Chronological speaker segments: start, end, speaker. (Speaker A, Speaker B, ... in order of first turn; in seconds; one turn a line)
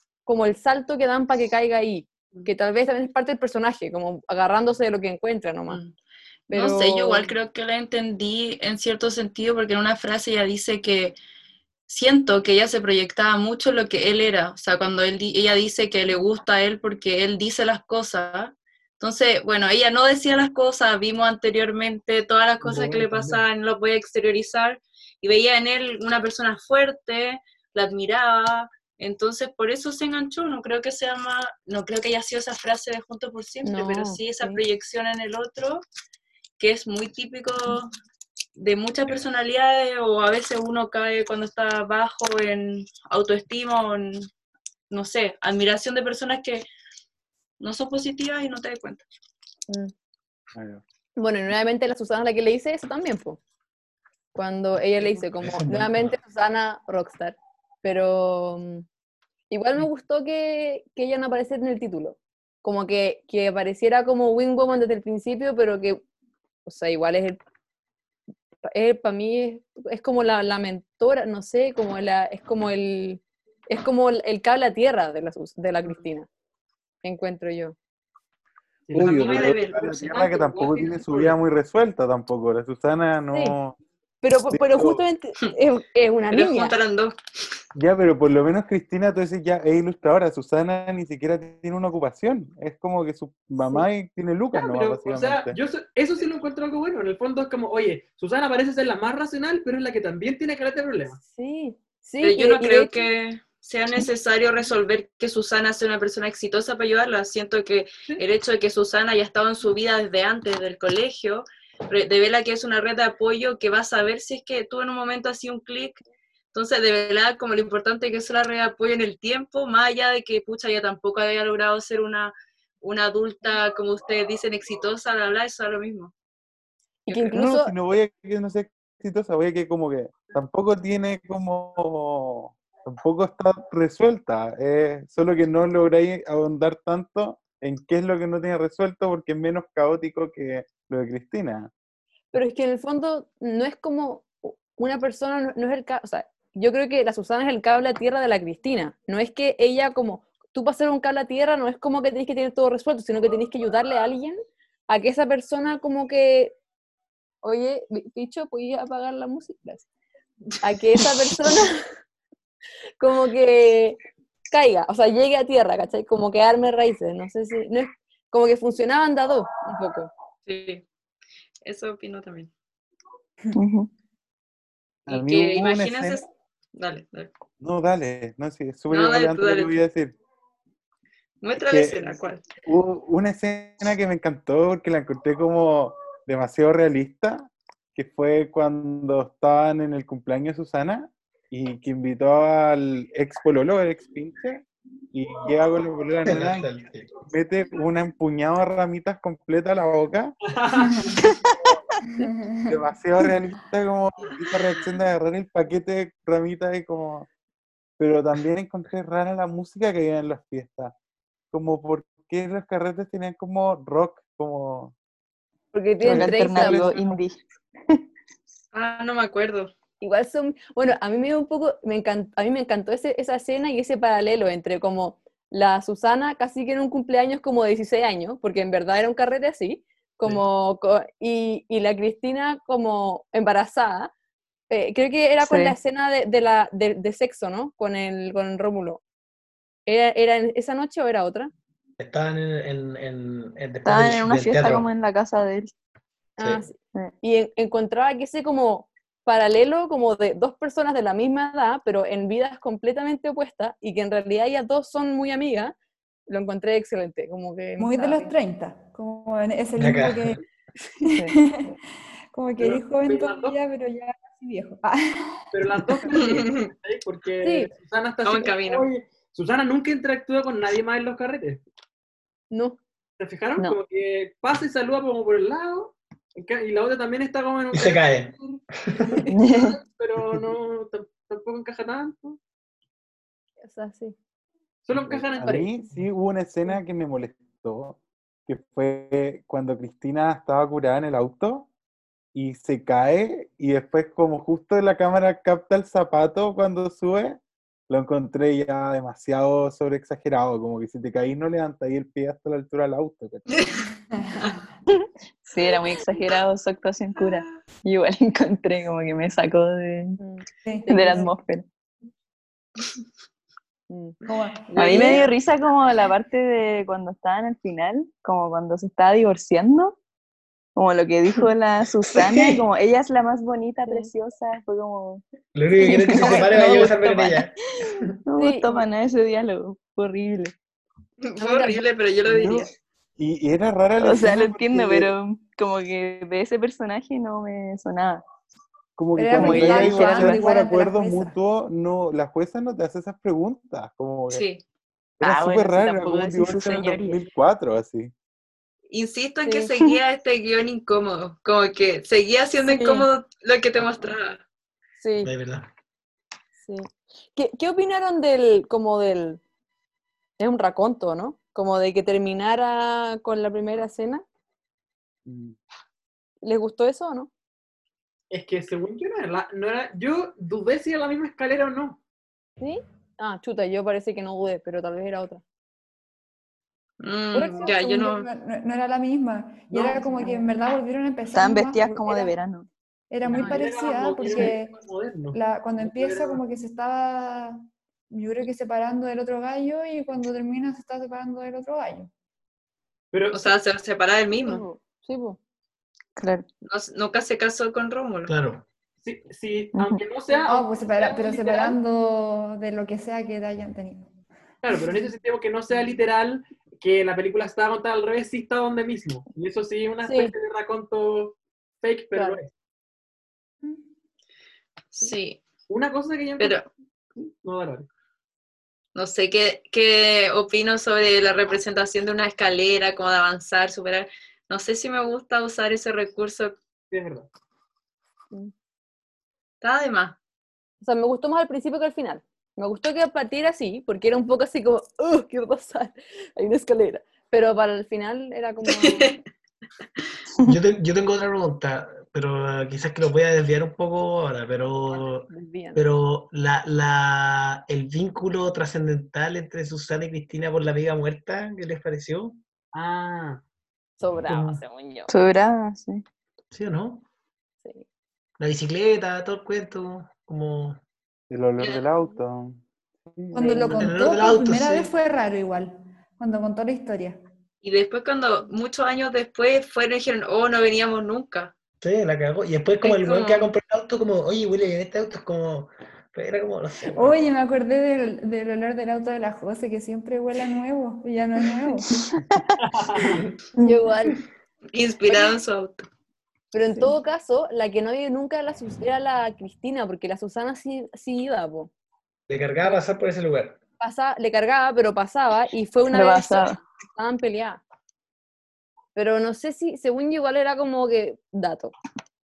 Speaker A: 0.2-5.8
Speaker B: 5.7-5.9
Speaker A: 6.5-7.3
Speaker B: 6.5-11.2
Speaker B: 11.9-35.8
Speaker C: 22.6-23.4
Speaker A: 33.6-34.6
Speaker B: 36.6-37.9
Speaker B: 38.5-44.3
Speaker B: 44.9-46.7
Speaker B: 47.6-49.0
Speaker D: 50.5-50.8
Speaker A: 51.2-53.4
Speaker A: 54.3-58.8
Speaker E: 55.1-56.1
Speaker A: 59.5-66.0
Speaker A: 66.7-67.4
Speaker A: 68.7-76.3
Speaker A: 77.0-77.8
Speaker C: 78.9-81.3
Speaker D: 78.9-83.8
Speaker B: 79.0-79.8
Speaker A: 84.2-86.8
Speaker D: 84.5-85.0
Speaker B: 86.3-87.2
Speaker D: 87.7-95.5
Speaker C: 94.5-101.2
Speaker A: 101.2-102.9
Speaker B: 102.2-126.1
Speaker A: 127.0-127.7
Speaker D: 127.1-141.7
Speaker A: 142.3-156.5
Speaker A: 157.4-159.8
Speaker A: 160.6-161.8
Speaker A: 163.0-164.0
Speaker A: 164.5-170.1
Speaker B: 170.5-170.8
Speaker B: 171.6-172.5
Speaker F: 173.5-173.9
Speaker D: 175.1-176.2
Speaker B: 175.1-177.3
Speaker D: 177.6-180.1
Speaker B: 178.9-179.8
Speaker B: 181.4-182.4
Speaker D: 181.7-196.7
Speaker E: 196.2-197.1
Speaker D: 197.3-200.3
Speaker C: 200.5-201.1
Speaker G: 202.1-202.8
Speaker D: 202.7-207.3
Speaker D: 208.0-210.9
Speaker D: 211.5-214.9
Speaker A: 215.7-217.1
Speaker D: 216.0-217.0
Speaker F: 216.0-217.4
Speaker B: 218.7-219.7
Speaker A: 220.0-234.1
Speaker A: 234.7-239.0
Speaker F: 235.4-235.8
Speaker A: 239.8-241.5
Speaker E: 242.0-244.9
Speaker F: 243.8-245.7
Speaker A: 246.4-255.7
Speaker E: 246.4-246.6
Speaker A: 256.3-258.3
Speaker G: 257.8-260.4
Speaker E: 259.8-260.4
Speaker G: 261.1-261.8
Speaker G: 262.3-265.4
Speaker C: 262.6-263.6
Speaker C: 265.5-271.6
Speaker B: 266.1-266.7
Speaker A: 267.4-267.7
Speaker B: 268.2-268.9
Speaker A: 272.5-272.8
Speaker C: 273.2-278.3
Speaker E: 277.7-279.2
Speaker F: 279.3-279.8
Speaker C: 279.5-282.4
Speaker A: 283.6-284.1
Speaker C: 284.8-285.7
Speaker D: 284.9-291.7
Speaker D: 292.3-303.6
Speaker B: 303.5-303.8
Speaker G: 304.2-304.5
Speaker F: 305.5-310.2
Speaker A: 310.2-311.3
Speaker G: 310.6-311.2
Speaker F: 310.9-311.6
Speaker A: 313.9-314.2
Speaker G: 314.2-315.2
Speaker A: 314.7-315.3
Speaker F: 314.8-320.0
Speaker F: 320.8-327.5
Speaker E: 322.2-322.6
Speaker E: 325.5-327.5
Speaker A: 326.2-326.6
Speaker F: 328.3-330.5
Speaker A: 328.4-328.8
Speaker B: 331.2-332.7
Speaker A: 331.4-331.8
Speaker D: 332.3-335.1
Speaker F: 334.0-338.2
Speaker D: 339.0-344.4
Speaker G: 339.2-341.3
Speaker F: 339.3-340.5
Speaker B: 344.3-344.6
Speaker D: 345.2-348.1
Speaker F: 345.2-347.2
Speaker B: 348.9-354.4
Speaker A: 352.7-353.1
Speaker A: 355.0-355.3
Speaker E: 355.2-355.7
Speaker A: 356.6-359.4
Speaker A: 360.4-364.2
Speaker D: 365.3-365.6
Speaker A: 366.4-367.3
Speaker C: 368.3-372.0
Speaker A: 372.6-375.4
Speaker B: 377.0-378.3
Speaker A: 377.3-377.7
Speaker G: 377.5-382.3
Speaker A: 379.9-380.4
Speaker F: 381.3-382.7
Speaker G: 383.1-384.7
Speaker C: 383.2-386.4
Speaker A: 383.4-383.6
Speaker G: 385.3-392.1
Speaker C: 393.1-393.5
Speaker B: 393.3-394.6
Speaker A: 394.4-395.4
Speaker F: 396.2-396.4
Speaker B: 396.6-398.4
Speaker E: 398.2-398.6
Speaker C: 399.0-401.8
Speaker F: 399.7-400.0
Speaker G: 400.3-404.1
Speaker C: 404.6-412.5
Speaker A: 410.0-410.3
Speaker B: 414.9-415.4
Speaker C: 415.7-416.6
Speaker B: 416.4-416.7
Speaker C: 417.1-417.9
Speaker B: 418.9-426.6
Speaker C: 426.9-427.3
Speaker B: 429.6-430.1
Speaker A: 430.8-439.1
Speaker B: 438.6-439.2
Speaker E: 440.4-452.4
Speaker A: 445.3-445.8
Speaker C: 452.7-453.4
Speaker A: 454.0-455.1
Speaker E: 454.3-454.6
Speaker F: 455.1-456.0
Speaker E: 456.5-457.1
Speaker E: 458.4-460.8
Speaker D: 461.3-462.6
Speaker B: 461.6-461.9
Speaker D: 463.1-463.7
Speaker G: 463.3-467.2
Speaker A: 463.4-463.6
Speaker E: 463.7-464.9
Speaker B: 467.6-471.5
Speaker E: 471.8-477.2
Speaker B: 472.8-473.5
Speaker G: 476.9-482.0
Speaker F: 482.1-482.4
Speaker C: 482.6-483.2
Speaker A: 483.6-484.2
Speaker B: 484.7-485.9
Speaker A: 485.1-485.4
Speaker A: 486.5-491.7
Speaker E: 492.3-493.6
Speaker A: 493.8-497.6
Speaker F: 495.9-496.6
Speaker A: 498.9-501.7